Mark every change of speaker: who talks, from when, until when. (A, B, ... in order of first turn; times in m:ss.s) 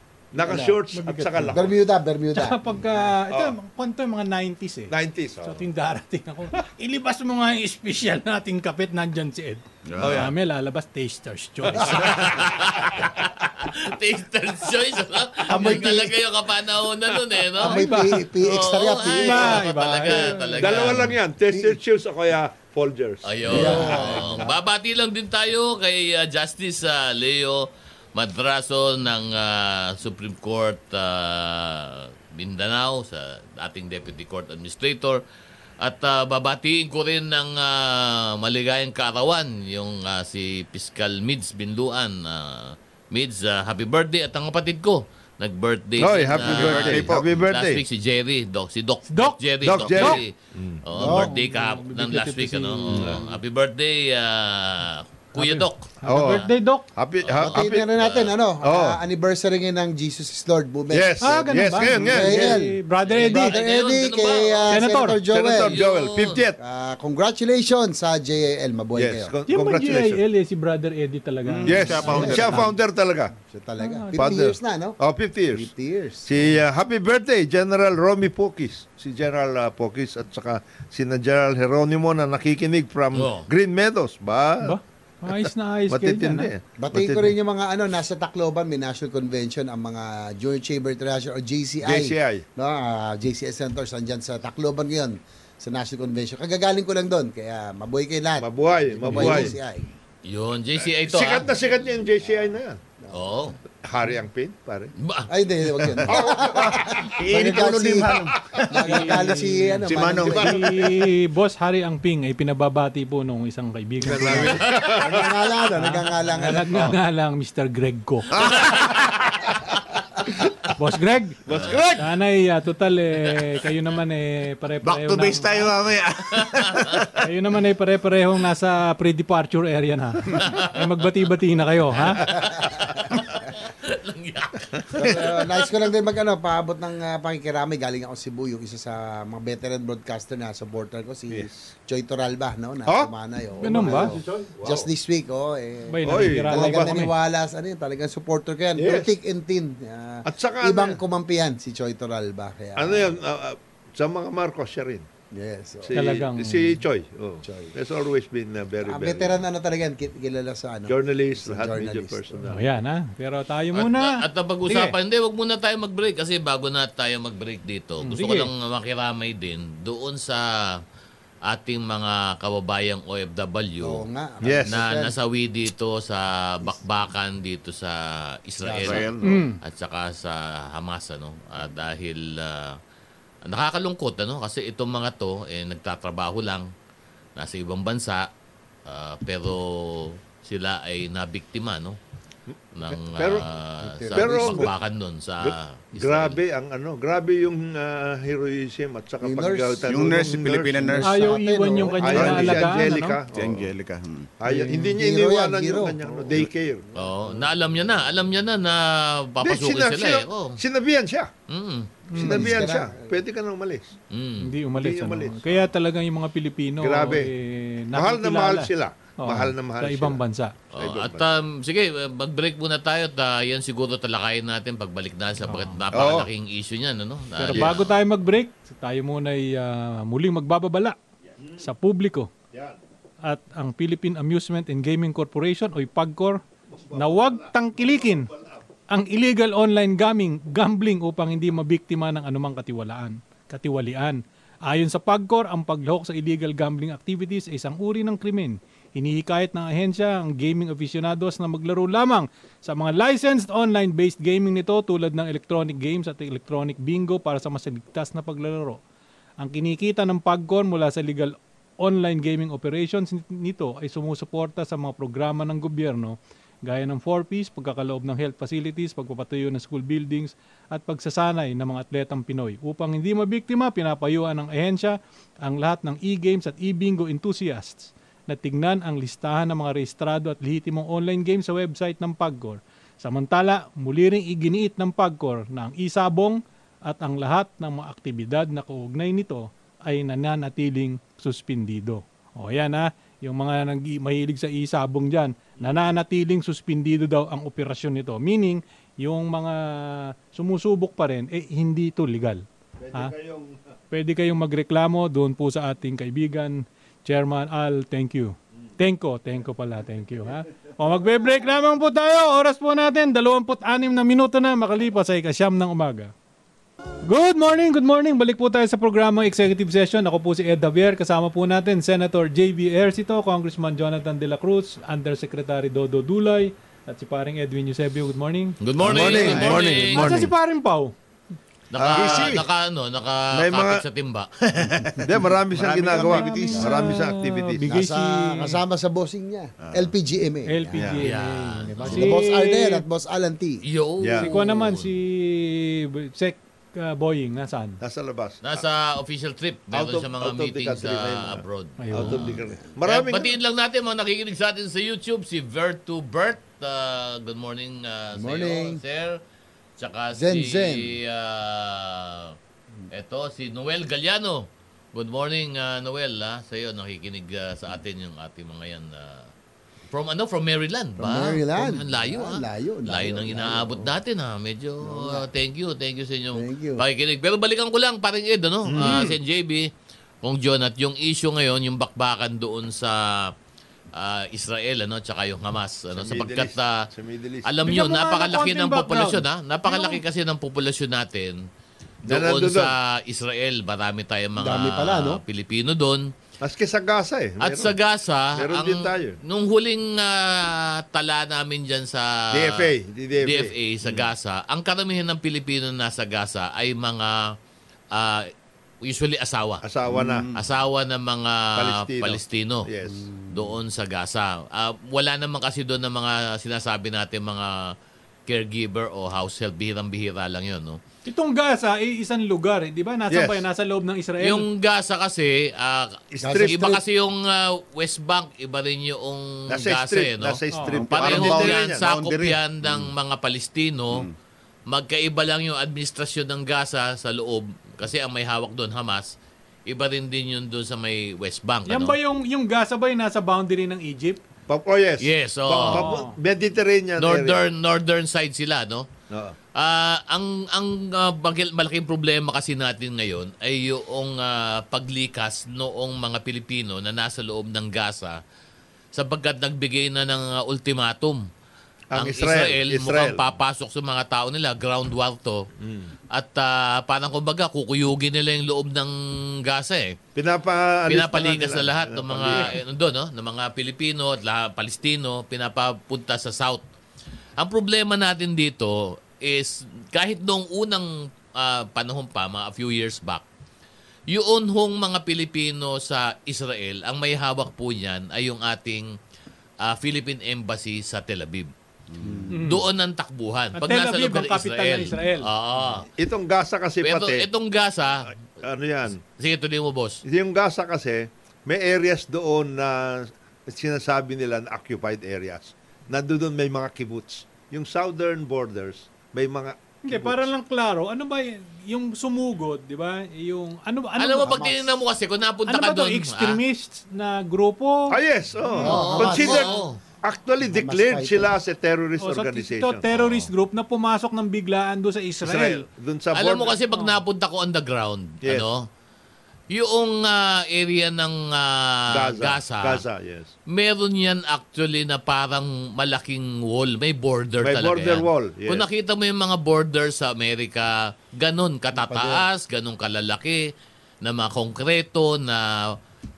0:00.3-0:01.7 A
0:00.4-0:00.8 B
0:00.9-0:01.6 C
0:01.5-0:02.6 B
0:02.3-0:12.3 C
0:04.9-0:05.6 A
0:09.9-0:10.3 D
0:10.0-0:10.3 A
0:11.8-0:21.2 E
0:12.0-0:12.3 A
0:15.5-0:16.2 B
0:17.6-0:19.6 B
0:17.6-0:18.2 C
0:19.2-0:21.0 C
0:20.1-0:24.2 A
0:21.5-0:21.8 B
0:23.2-0:35.2 E
0:23.4-0:24.6 B
0:35.8-0:50.3 E
0:46.0-0:47.8 A
0:46.3-0:47.3 D
0:49.1-0:50.2 C
0:49.6-0:50.8 A
0:50.8-0:56.4 E
0:51.0-0:51.3 B
0:51.0-0:53.2 C
0:52.9-0:53.2 A
0:55.3-0:56.9 C
0:56.0-0:57.9 A
0:57.2-0:58.3 E
0:57.4-1:05.8 B
0:58.6-0:59.0 A
1:00.9-1:02.6 A
1:01.2-1:03.6 C
1:03.0-1:04.8 E
1:04.7-1:05.2 C
1:05.2-1:06.6 A
1:05.6-1:06.4 E
1:06.6-1:09.3 B
1:09.0-1:10.2 A
1:09.5-1:12.7 C
1:11.5-1:12.7 D
1:11.6-1:13.3 A
1:12.0-1:12.7 B
1:13.3-1:15.0 B
1:13.8-1:14.4 C
1:14.2-1:15.7 A
1:15.5-1:16.4 B
1:16.2-1:24.8 A
1:23.1-1:23.5 E
1:24.6-1:26.5 C
1:25.3-1:27.3 A
1:26.8-1:39.9 B
1:31.8-1:32.4 A
1:38.4-1:39.5 A
1:39.1-1:39.4 C
1:40.2-1:41.5 E
1:40.8-1:42.8 A
1:43.1-1:43.6 E
1:43.8-1:44.9 A
1:45.0-1:46.0 E
1:45.3-1:50.7 B
1:46.1-1:47.0 A
1:46.5-1:49.2 D
1:48.7-1:54.6 C
1:49.8-1:50.7 D
1:54.0-1:55.3 A
1:54.0-1:57.0 B
1:55.7-1:58.6 C
1:58.3-1:59.0 D
1:58.7-1:59.0 E
2:00.7-2:05.7 C
2:01.4-2:02.1 A
2:04.8-2:07.3 D
2:06.3-2:07.0 E
2:07.2-2:12.4 C
2:12.2-2:15.7 E
2:14.9-2:33.2 B
2:21.3-2:21.6 A
2:23.6-2:24.1 C
2:23.6-2:24.9 A
2:25.9-2:27.1 C
2:26.0-2:27.0 A
2:28.8-2:29.1 A
2:30.3-2:31.0 A
2:32.8-2:35.1 A
2:35.3-2:36.0 B
2:35.8-2:39.4 A
2:35.9-2:36.8 C
2:37.4-2:37.7 B
2:38.8-2:42.4 B
2:40.9-2:42.6 A
2:42.5-2:44.9 C
2:43.7-2:50.8 E
2:48.0-2:48.5 C
2:51.5-2:54.0 E
2:53.8-2:55.1 B
2:54.4-2:54.8 A
2:54.6-3:02.8 E
2:58.6-2:59.1 B
2:58.8-2:59.5 D
2:59.2-2:59.6 C
3:03.5-3:06.7 E
3:07.4-3:08.3 E
3:08.8-3:12.0 E
3:12.5-3:13.4 A
3:12.7-3:16.4 E
3:13.8-3:14.7 B
3:14.1-3:14.7 A
3:15.4-3:21.0 A
3:19.2-3:22.6 B
3:19.9-3:21.3 D
3:21.0-3:23.2 C
3:22.0-3:23.7 A
3:22.1-3:24.3 D
3:24.4-3:26.8 A
3:24.4-3:24.9 C
3:24.9-3:27.5 B
3:26.9-3:30.6 E
3:29.4-3:31.3 A
3:31.5-3:31.9 E
3:32.1-3:32.6 C
3:32.1-3:33.9 A
3:32.2-3:33.2 B
3:34.1-3:34.5 E
3:34.4-3:40.5 C
3:34.8-3:35.7 A
3:36.8-3:37.3 A
3:37.9-3:40.2 A
3:40.7-3:47.9 E
3:40.8-3:41.2 A
3:45.4-3:45.8 C
3:45.9-3:46.3 A
3:47.4-3:51.0 C
3:51.6-3:52.3 C
3:52.5-3:52.8 A
3:53.2-3:56.4 C
3:56.7-3:58.6 A
3:56.9-3:58.3 C
3:58.9-4:18.8 C
4:19.4-5:03.1 C
5:02.8-5:03.6 A
5:03.9-5:16.1 C
5:17.0-5:30.9 C
5:28.6-5:30.3 E
5:28.8-5:30.3 A
5:31.7-5:34.3 E
5:31.8-5:32.4 A
5:31.9-5:32.4 D
5:33.3-5:33.8 A
5:34.5-5:36.9 D
5:35.0-5:37.6 A
5:35.9-5:38.6 C
5:37.7-5:40.9 B
5:39.6-5:39.9 D
5:40.5-5:42.8 C
5:40.7-5:41.0 A
5:41.0-5:42.1 E
5:41.8-5:43.6 B
5:43.6-5:44.9 E
5:44.0-5:44.3 A
5:44.2-5:47.8 C
5:47.8-5:48.6 A
5:48.4-5:59.2 E
5:49.7-5:53.3 A
5:51.8-5:52.3 C
5:58.1-5:58.8 B
5:59.8-6:02.4 E
6:00.2-6:01.0 B
6:02.9-6:09.3 E
6:09.9-6:19.7 E
6:11.0-6:14.0 B
6:14.8-6:15.3 B
6:16.3-6:16.8 B
6:18.7-6:19.2 A
6:20.2-6:23.3 E
6:23.9-6:26.8 E
6:25.9-6:27.5 A
6:27.4-6:31.4 E
6:27.6-6:30.0 C
6:32.0-6:36.1 E
6:32.1-6:32.7 A
6:34.4-6:35.2 B
6:36.4-6:37.7 A
6:37.4-6:47.3 E
6:38.3-6:39.2 A
6:42.3-6:44.1 A
6:47.9-6:48.3 E
6:48.8-6:49.6 E
6:49.6-6:50.3 A
6:49.9-6:50.4 D
6:50.3-6:52.7 E
6:51.6-6:53.1 A
6:53.3-6:57.7 E
6:58.3-7:00.8 E
7:01.0-7:04.4 C
7:03.1-7:03.4 A
7:04.2-7:10.4 E
7:06.1-7:06.8 A
7:06.2-7:06.8 B
7:09.5-7:11.8 A
7:10.5-7:10.8 C
7:10.7-7:12.9 D
7:10.9-7:14.1 E
7:14.7-7:19.1 E
7:19.7-7:22.0 E
7:21.7-7:24.2 C
7:24.5-7:27.4 A
7:25.0-7:25.9 E
7:25.6-7:26.2 C
7:27.0-7:28.8 E
7:29.1-7:29.4 A
7:29.5-7:38.2 E
7:38.9-7:41.2 E
7:41.9-7:43.2 A
7:41.9-7:45.4 E
7:45.6-7:45.9 A
7:46.1-7:50.0 E
7:50.1-7:52.6 A
7:50.9-7:56.6 E
7:57.4-8:03.2 E
8:04.1-8:08.9 E
8:09.6-8:11.5 E
8:11.9-8:12.4 D
8:12.3-8:12.6 C
8:12.3-8:15.9 E
8:13.5-8:15.3 C
8:16.0-8:17.2 A
8:16.8-8:18.1 E
8:18.4-8:19.0 A
8:19.2-8:20.0 E
8:20.0-8:30.3 A
8:29.8-8:34.7 C
8:34.0-8:36.4 E
8:35.5-8:37.9 C
8:37.9-8:42.8 A
8:38.5-8:38.9 C
8:38.6-8:39.5 B
8:38.6-8:39.8 E
8:40.4-8:41.3 B
8:42.0-8:45.6 C
8:42.9-8:43.3 E
8:45.2-8:46.6 A
8:46.1-8:48.6 E
8:49.5-8:52.8 E
8:51.9-8:53.3 A
8:53.5-9:03.5 E
8:57.4-8:58.6 A
9:01.8-9:02.3 B
9:04.0-9:05.8 E